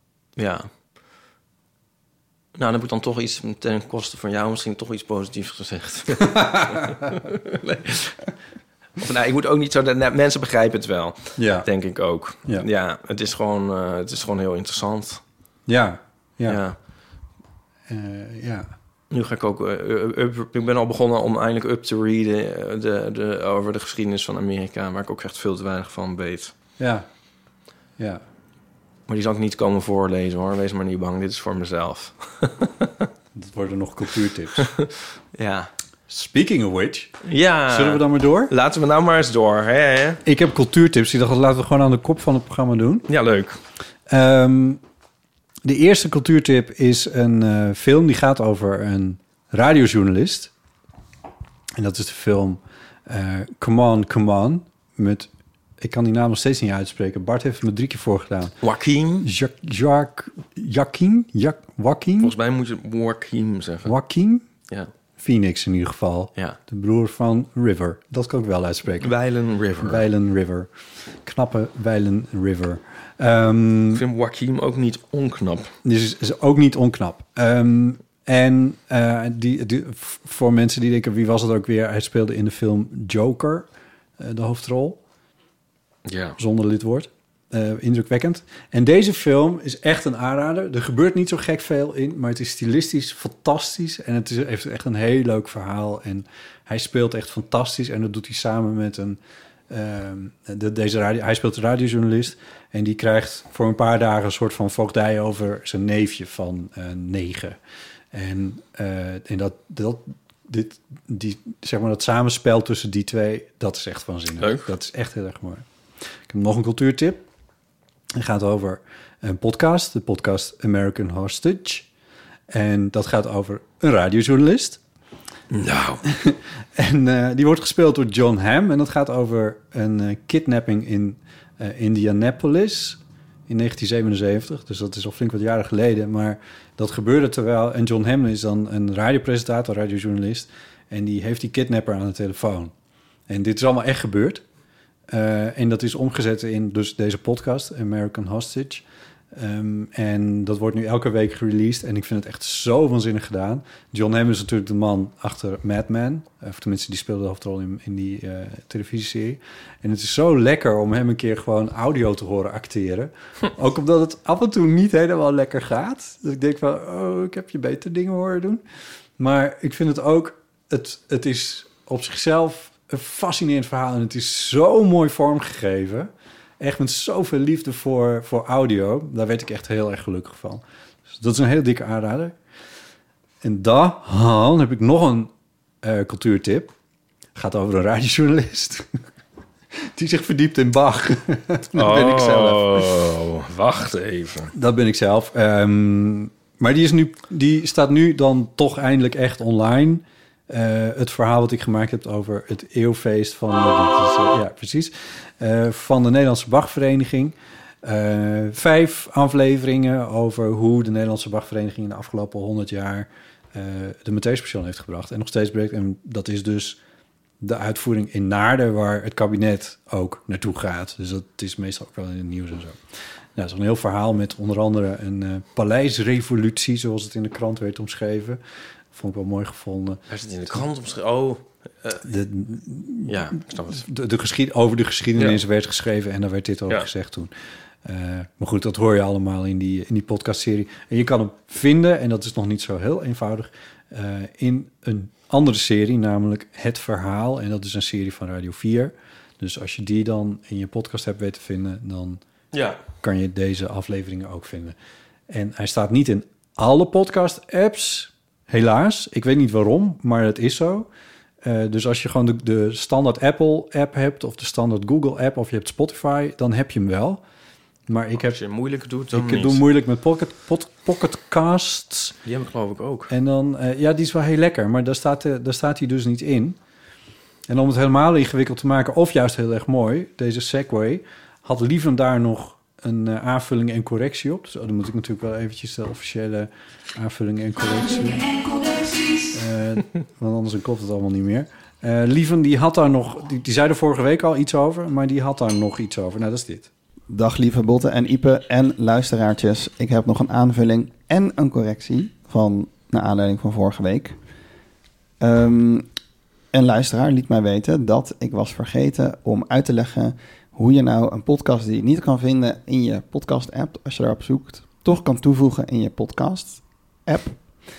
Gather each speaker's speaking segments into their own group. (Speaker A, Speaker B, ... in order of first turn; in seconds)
Speaker A: 0.4-0.7, 2.6-8.2, 9.0-15.2, 16.5-16.8, 19.1-26.5, 29.1-33.1, 34.6-35.7, 37.2-40.2, 43.1-43.6, 58.6-59.3, 62.2-63.9, 69.0-70.0, 73.9-75.7, 86.1-86.4, 114.4-114.7, 125.5-126.0, 191.7-194.5, 230.1-232.1, 233.1-233.8, 235.2-235.4, 252.5-252.8, 268.2-269.6, 272.2-273.1
Speaker B: 6.2-6.9, 11.4-11.7, 15.7-16.6, 17.9-18.7, 26.8-27.1, 33.4-34.7, 36.1-37.2, 37.7-38.5, 40.2-43.1, 44.1-44.8, 45.6-50.5, 51.8-58.5, 59.2-62.4, 63.9-64.5, 65.2-69.1, 69.8-70.7, 71.2-74.0, 75.8-83.7, 84.2-85.0, 86.4-99.2, 99.7-107.6, 108.1-115.7, 116.3-117.3, 118.1-121.9, 122.5-124.8, 126.0-142.7, 143.3-144.4, 145.1-168.6, 169.2-182.3, 183.4-185.3, 185.8-186.7, 187.3-188.9, 189.8-192.9, 194.5-216.8, 217.4-222.8, 223.3-228.4, 228.9-230.6, 232.0-237.3, 237.8-252.2, 253.0-254.8, 255.3-260.9, 261.4-267.2, 267.9-268.4, 269.1-272.2, 273.1-276.6, 277.5-288.4, 289.3-296.7
Speaker C: 297.1-304.2, 305.2-305.9, 306.5-317.4